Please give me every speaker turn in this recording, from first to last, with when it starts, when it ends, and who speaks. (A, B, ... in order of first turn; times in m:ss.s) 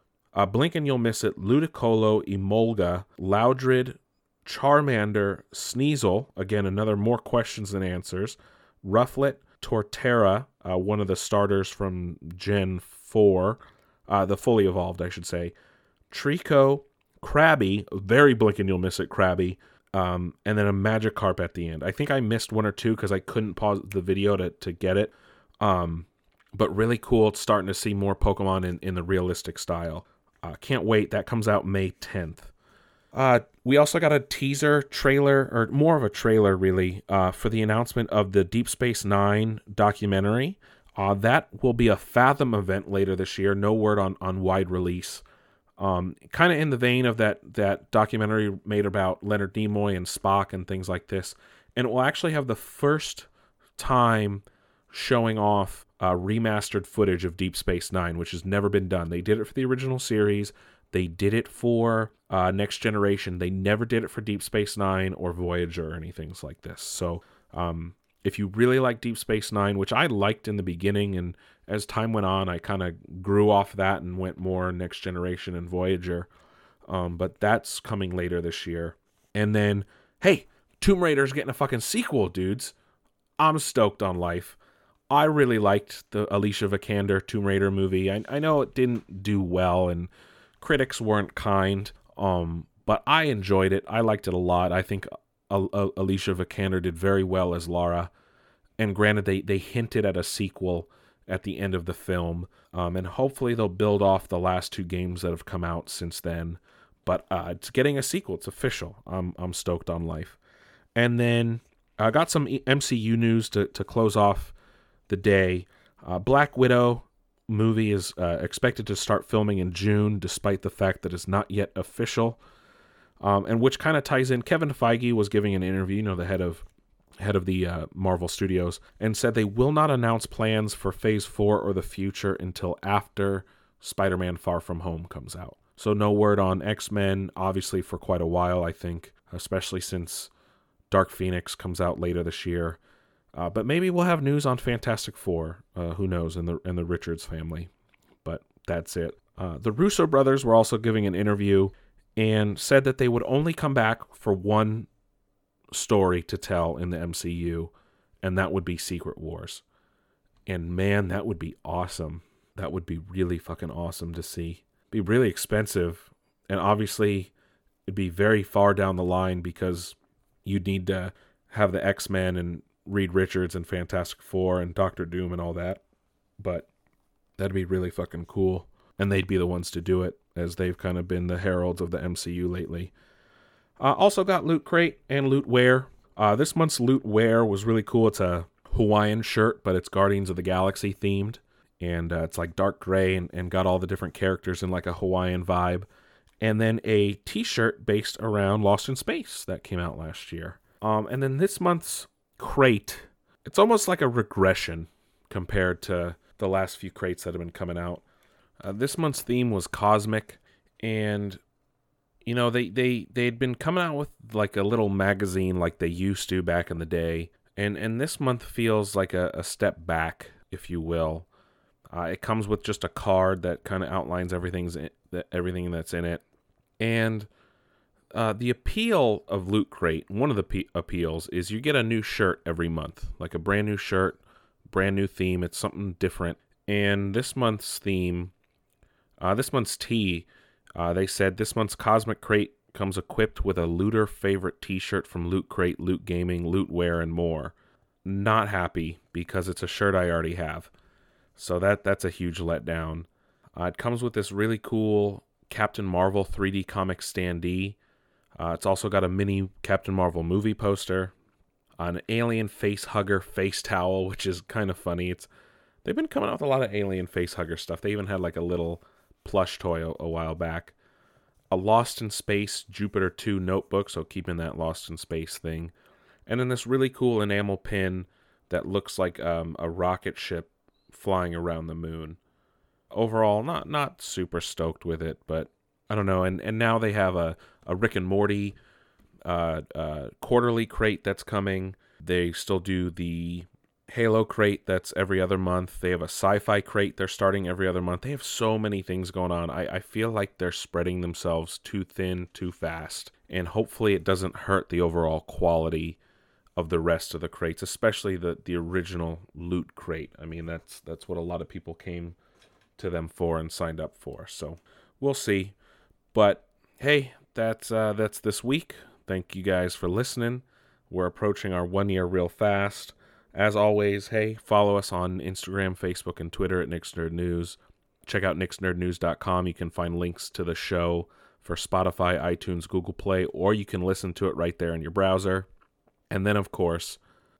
0:00.3-0:15.5 A
0:16.1-0:32.5 A
0:33.1-0:45.2 A
0:45.8-1:16.3 A
1:16.9-1:22.7 A
1:23.4-1:24.6 A
1:25.1-1:38.1 A
1:38.8-1:50.4 A
1:50.9-1:54.5 A
1:55.1-2:02.4 A
2:03.2-2:06.7 A
2:07.2-2:20.3 A
2:20.9-2:22.8 A
2:23.3-2:27.7 A
2:28.2-2:34.9 A
2:35.7-2:37.7 A
2:38.2-2:39.6 A
2:40.5-2:47.3 A
2:47.8-2:55.8 A
2:56.4-2:56.7 A
2:57.4-3:02.9 A
3:03.8-3:15.9 A
3:16.4-3:28.0 A
3:28.6-3:31.4 A
3:32.2-3:41.3 A
3:41.9-3:46.2 A
3:46.8-3:47.3 A
3:48.1-3:58.3 A
3:59.2-4:00.2 A
4:00.8-4:10.7 A
4:11.4-4:17.8 A
4:18.4-4:21.1 A
4:21.8-4:25.3 A
4:25.8-4:30.7 A
4:31.5-4:35.7 A
4:36.3-4:42.2 A
4:42.9-4:48.6 A
4:49.2-5:06.0 A
5:06.6-5:12.2 A
5:12.8-5:15.5 A
5:16.1-5:35.5 A
5:36.1-5:37.0 A